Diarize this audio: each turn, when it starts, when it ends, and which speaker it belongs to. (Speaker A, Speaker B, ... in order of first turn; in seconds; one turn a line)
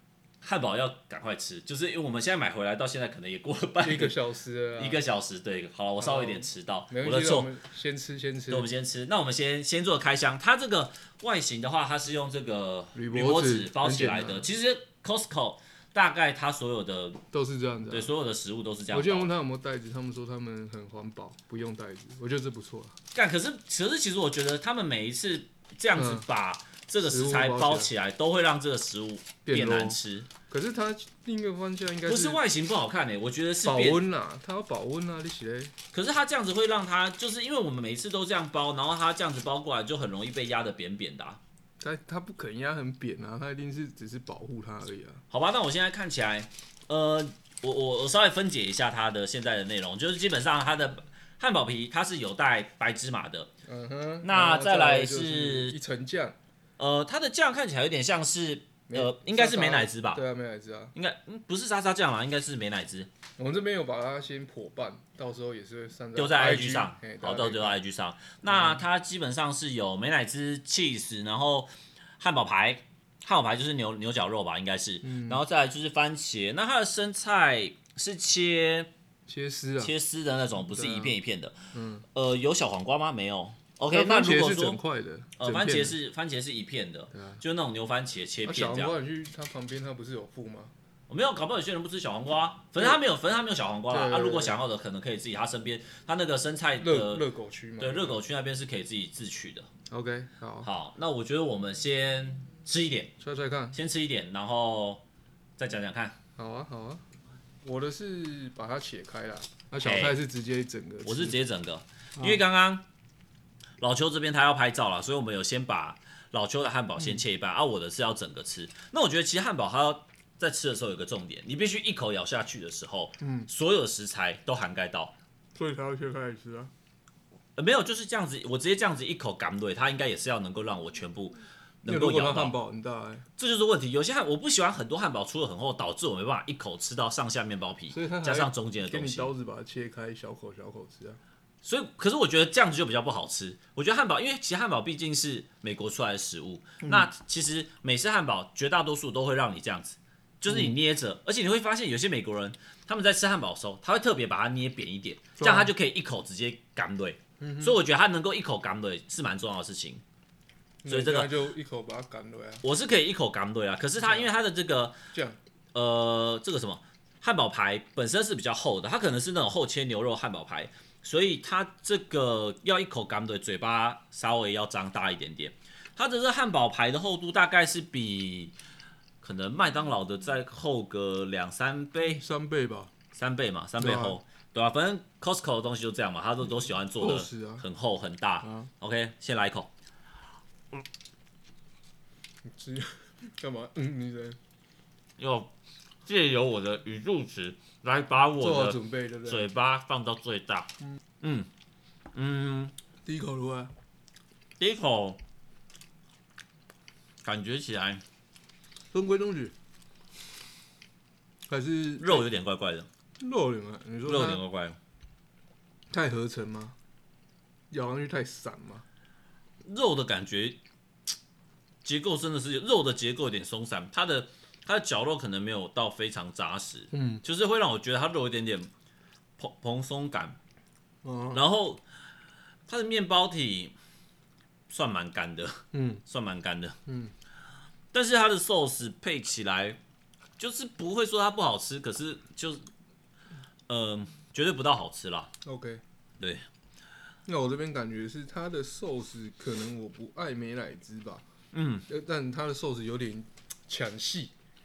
Speaker A: 0.4-4.2
Speaker B: 3.8-5.0
Speaker A: 4.8-7.5
Speaker B: 6.0-8.7
Speaker A: 8.5-17.2
Speaker B: 12.9-14.5
Speaker B: 17.3-18.1
Speaker A: 17.9-19.3
Speaker B: 18.9-23.0
Speaker A: 23.1-30.3
Speaker B: 25.9-26.3
Speaker B: 27.0-27.9
Speaker B: 29.4-30.0
Speaker B: 30.5-32.4
Speaker A: 32.1-34.0
Speaker B: 33.6-35.7
Speaker A: 35.9-41.4
Speaker B: 41.8-45.2
Speaker A: 45.3-53.5
Speaker B: 53.7-56.4
Speaker A: 54.2-55.8
Speaker A: 56.8-60.2
Speaker B: 58.9-60.9
Speaker A: 60.9-63.1
Speaker B: 63.4-67.8
Speaker A: 66.1-78.9
Speaker B: 68.5-68.8
Speaker B: 75.0-75.4
Speaker B: 79.3-79.9
Speaker A: 79.8-81.6
Speaker B: 80.6-81.1
Speaker B: 81.7-82.0
Speaker A: 82.1-84.8
Speaker B: 83.9-85.9
Speaker A: 85.4-88.9
Speaker B: 87.1-87.4
Speaker B: 88.4-90.7
Speaker A: 91.1-97.3
Speaker B: 93.9-94.6
Speaker B: 96.8-98.2
Speaker A: 97.8-99.7
Speaker B: 99.9-100.7
Speaker A: 100.6-103.1
Speaker B: 103.2-103.8
Speaker A: 103.7-105.0
Speaker A: 105.6-106.2
Speaker B: 106.4-107.0
Speaker B: 107.6-111.4
Speaker A: 109.8-110.2
Speaker A: 111.0-112.8
Speaker A: 113.8-125.1
Speaker B: 123.2-123.5
Speaker B: 125.5-126.7
Speaker A: 127.6-132.5
Speaker B: 131.9-133.3
Speaker A: 133.4-139.3
Speaker B: 137.9-141.2
Speaker A: 141.6-160.0
Speaker B: 146.8-147.1
Speaker B: 150.5-150.8
Speaker B: 155.4-155.7
Speaker B: 157.4-157.8
Speaker B: 160.8-162.6
Speaker A: 160.9-161.3
Speaker A: 162.6-164.9
Speaker B: 164.0-164.3
Speaker B: 165.1-165.4
Speaker A: 165.7-178.5
Speaker A: 179.2-182.2
Speaker B: 182.0-182.9
Speaker A: 183.1-189.7
Speaker B: 183.8-184.2
Speaker B: 187.0-187.7
Speaker B: 188.4-188.7
Speaker B: 192.4-194.4
Speaker A: 195.2-195.5
Speaker A: 196.1-200.7
Speaker B: 198.4-199.5
Speaker A: 201.2-201.5
Speaker A: 202.1-202.7
Speaker B: 203.1-203.7
Speaker A: 204.6-205.2
Speaker A: 207.2-208.0
Speaker B: 208.9-209.6
Speaker B: 211.5-212.2
Speaker A: 212.0-212.9
Speaker B: 213.2-214.4
Speaker A: 214.1-214.8
Speaker B: 215.9-216.8
Speaker B: 217.7-218.8
Speaker A: 219.6-220.6
Speaker A: 221.8-228.7
Speaker B: 226.9-227.2
Speaker A: 229.4-230.4
Speaker B: 231.0-231.4
Speaker A: 231.3-231.8
Speaker A: 232.7-233.7
Speaker A: 234.7-236.8
Speaker B: 235.7-236.0
Speaker B: 236.8-237.1
Speaker A: 237.9-239.8
Speaker A: 240.4-242.7
Speaker A: 243.7-245.3
Speaker B: 245.4-245.8
Speaker A: 246.2-246.4
Speaker B: 247.3-251.2
Speaker A: 251.5-251.9
Speaker B: 251.9-254.3